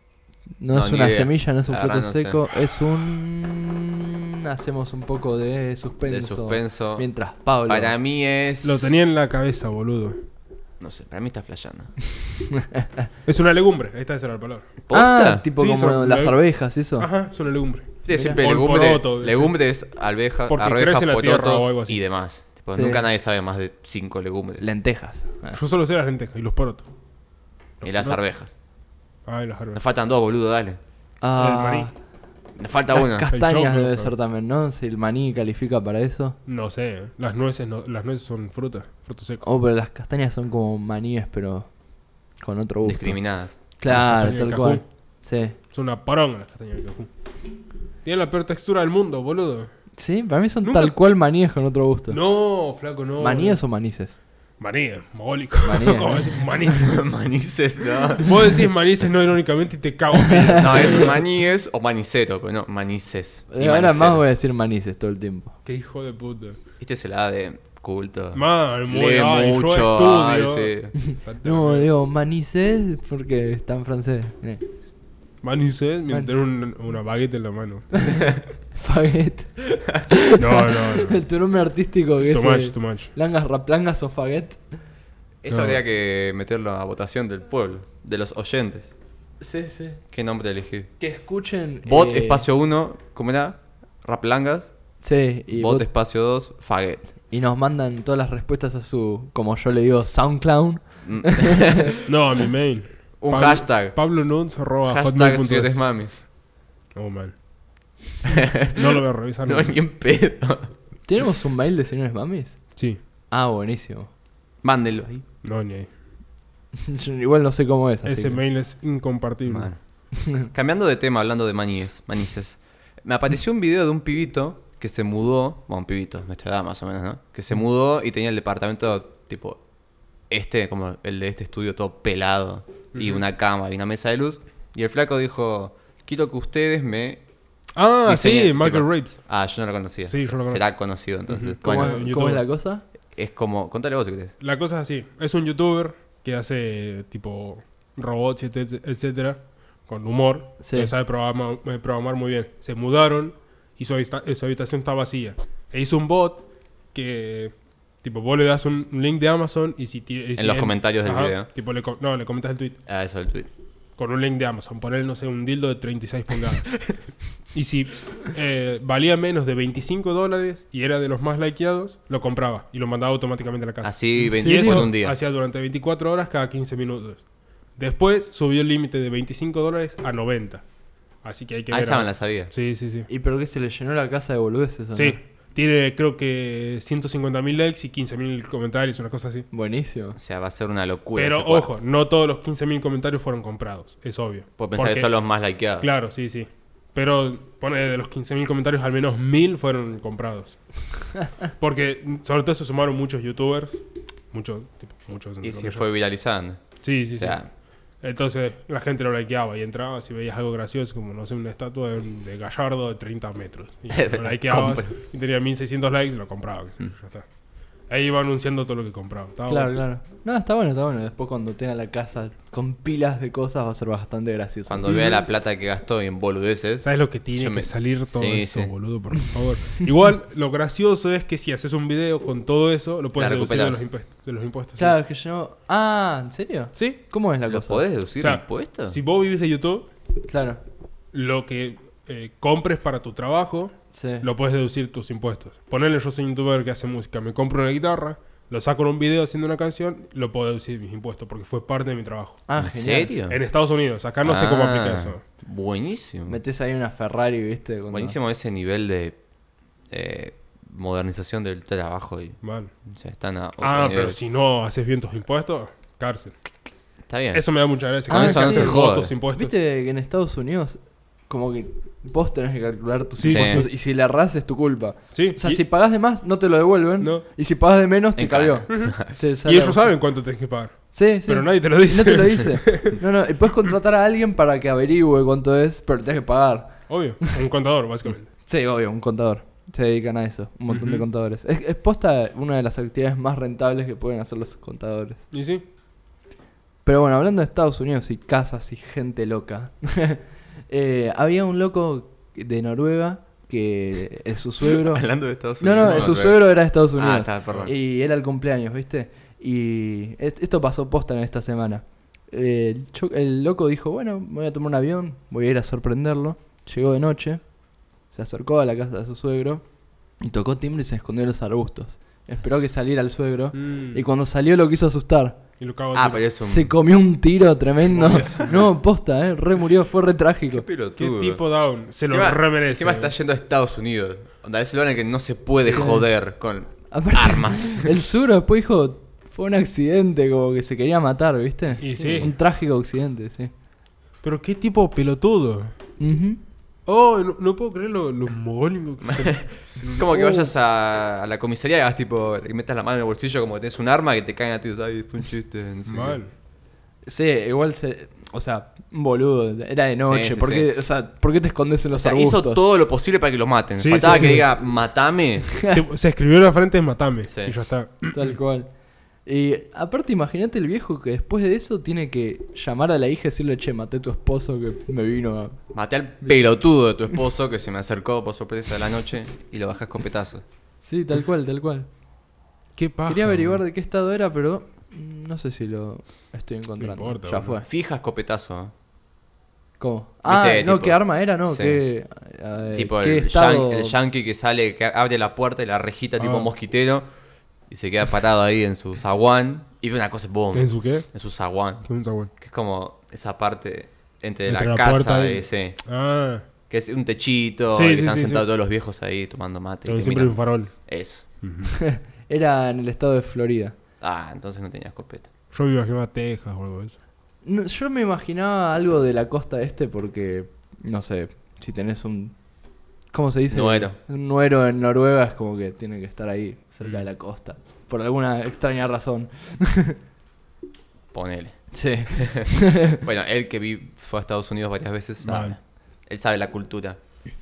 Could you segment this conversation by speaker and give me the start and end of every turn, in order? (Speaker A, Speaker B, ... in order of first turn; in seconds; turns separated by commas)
Speaker A: 0.6-7.9, Speaker B: 0.7-2.5, Speaker B: 6.1-7.1, Speaker B: 7.6-8.9, Speaker C: 8.6-10.2, Speaker B: 10.8-11.9, Speaker A: 12.5-13.0, Speaker C: 13.3-14.8, Speaker B: 14.9-15.5, Speaker A: 14.9-17.1, Speaker C: 15.6-19.9, Speaker B: 18.1-24.6, Speaker A: 18.1-18.4, Speaker C: 20.5-22.0, Speaker A: 22.7-23.1, Speaker A: 24.6-25.6, Speaker C: 25.5-26.9, Speaker C: 27.8-28.2, Speaker B: 27.8-28.5, Speaker C: 29.3-29.8, Speaker B: 29.7-30.8, Speaker A: 31.2-32.0, Speaker C: 31.4-31.9, Speaker B: 32.6-33.3, Speaker A: 32.9-36.4, Speaker C: 33.3-34.1, Speaker C: 36.5-39.4, Speaker A: 39.4-45.6, Speaker B: 42.8-43.6, Speaker C: 43.9-44.9, Speaker C: 45.7-47.1, Speaker C: 48.0-49.7, Speaker A: 50.0-52.2, Speaker C: 50.6-51.0, Speaker C: 52.1-53.6, Speaker A: 53.2-54.2, Speaker C: 54.6-57.1, Speaker A: 55.6-56.4, Speaker B: 56.7-58.4, Speaker C: 58.2-61.2, Speaker A: 60.2-60.9, Speaker B: 60.6-64.2, Speaker A: 63.5-65.5, Speaker C: 65.7-66.6, Speaker B: 66.8-70.9, Speaker C: 68.3-71.9, Speaker A: 71.0-74.6, Speaker C: 75.4-78.0, Speaker A: 78.0-84.6, Speaker C: 80.4-81.3, Speaker C: 82.3-83.1, Speaker B: 85.4-88.9, Speaker C: 85.5-85.8, Speaker A: 89.4-90.0, Speaker B: 90.1-91.0, Speaker A: 91.0-92.5, Speaker B: 91.8-94.8, Speaker A: 95.0-95.9, Speaker B: 95.5-97.1, Speaker A: 97.3-101.8, Speaker B: 101.0-101.9, Speaker C: 102.0-106.0, Speaker B: 103.2-104.1, Speaker B: 104.9-106.2, Speaker C: 107.0-107.5, Speaker B: 108.3-110.7, Speaker C: 108.7-109.8, Speaker A: 111.0-114.1, Speaker B: 114.6-115.2, Speaker C: 115.4-115.9, Speaker A: 116.9-118.4, Speaker C: 118.0-119.7, Speaker B: 119.5-129.6, Speaker B: 130.3-137.2, Speaker C: 132.9-133.2, Speaker C: 137.8-139.3, Speaker B: 138.1-142.0, Speaker C: 140.1-142.4, Speaker A: 141.6-142.8, Speaker B: 143.2-144.3, Speaker C: 144.4-162.8, Speaker A: 150.6-150.9, Speaker B: 160.4-161.5, Speaker B: 162.9-163.5, Speaker C: 164.0-180.7, Speaker B: 173.8-175.2, Speaker A: 174.4-174.9, Speaker C: 181.2-183.1, Speaker B: 181.7-182.5, Speaker A: 183.1-185.2, Speaker C: 184.9-189.5, Speaker A: 189.5-190.2, Speaker B: 190.2-191.7, Speaker C: 191.2-200.6, Speaker B: 194.6-195.9, Speaker C: 201.1-203.8, Speaker C: 204.3-205.9, Speaker B: 205.4-207.5, Speaker C: 206.8-207.5, Speaker C: 208.0-217.3, Speaker B: 213.9-214.9, Speaker C: 217.9-219.8, Speaker A: 219.5-225.2, Speaker B: 224.7-228.7, Speaker C: 226.8-235.0, Speaker B: 233.2-233.8, Speaker A: 234.8-237.8, Speaker C: 236.8-237.0, Speaker B: 237.5-239.0, Speaker C: 238.2-239.9, Speaker A: 240.3-240.6, Speaker C: 241.1-252.6, Speaker A: 243.9-244.3, Speaker A: 252.5-253.1, Speaker B: 252.6-253.4, Speaker C: 253.3-255.2, Speaker B: 254.2-256.4, Speaker A: 256.3-258.2, Speaker B: 257.9-259.2, Speaker B: 259.9-264.2, Speaker C: 262.4-262.8, Speaker C: 263.6-266.3, Speaker B: 267.1-269.1, Speaker C: 267.3-269.6, Speaker A: 268.1-279.9, Speaker C: 273.2-273.8, Speaker B: 273.2-273.6, Speaker C: 275.1-275.6, Speaker B: 278.2-279.1, Speaker C: 278.7-283.0, Speaker A: 280.9-286.9, Speaker C: 286.9-288.3, Speaker A: 288.4-295.3, Speaker C: 290.7-291.1, Speaker C: 295.3-295.6, Speaker A: 296.9-317.6, Speaker B: 304.6-307.7, Speaker C: 305.8-306.1, Speaker A: 318.1-319.7, Speaker A: 320.2-325.4, Speaker C: 323.5-324.0, Speaker C: 325.6-326.2, Speaker B: 325.9-326.7, Speaker A: 326.4-330.7, Speaker C: 327.9-328.7, Speaker B: 330.5-331.4, Speaker C: 331.0-333.1, Speaker B: 332.1-337.9, Speaker A: 335.7-336.1, Speaker A: 336.7-343.5, Speaker C: 341.8-342.3, Speaker B: 342.1-342.3, Speaker C: 344.2-345.8, Speaker A: 346.0-346.4, Speaker C: 346.9-350.5, Speaker B: 349.0-356.2, Speaker C: 355.9-356.3, Speaker A: 357.1-362.6, Speaker B: 360.0-360.7, Speaker B: 361.9-365.5, Speaker C: 363.8-364.6, Speaker A: 364.0-364.4, Speaker C: 365.7-368.4, Speaker A: 368.1-376.8, Speaker B: 375.7-380.4, Speaker A: 380.8-381.9, Speaker C: 382.8-383.6, Speaker A: 383.1-387.6, Speaker C: 386.8-387.6, Speaker B: 387.7-388.7, Speaker A: 389.8-394.0, Speaker B: 390.2-391.8, Speaker B: 392.8-397.1, Speaker C: 396.2-396.5, Speaker B: 397.7-405.8, Speaker C: 400.5-401.1, Speaker C: 401.8-402.3, Speaker C: 404.5-406.4, Speaker B: 406.7-411.3, Speaker C: 407.7-408.4, Speaker C: 409.9-411.7, Speaker A: 411.7-413.8, Speaker B: 414.0-415.3, Speaker C: 415.5-417.0, Speaker A: 417.4-422.4, Speaker A: 423.1-429.9, Speaker B: 423.5-424.0, Speaker B: 431.1-437.2, Speaker A: 431.7-433.0, Speaker C: 435.2-435.6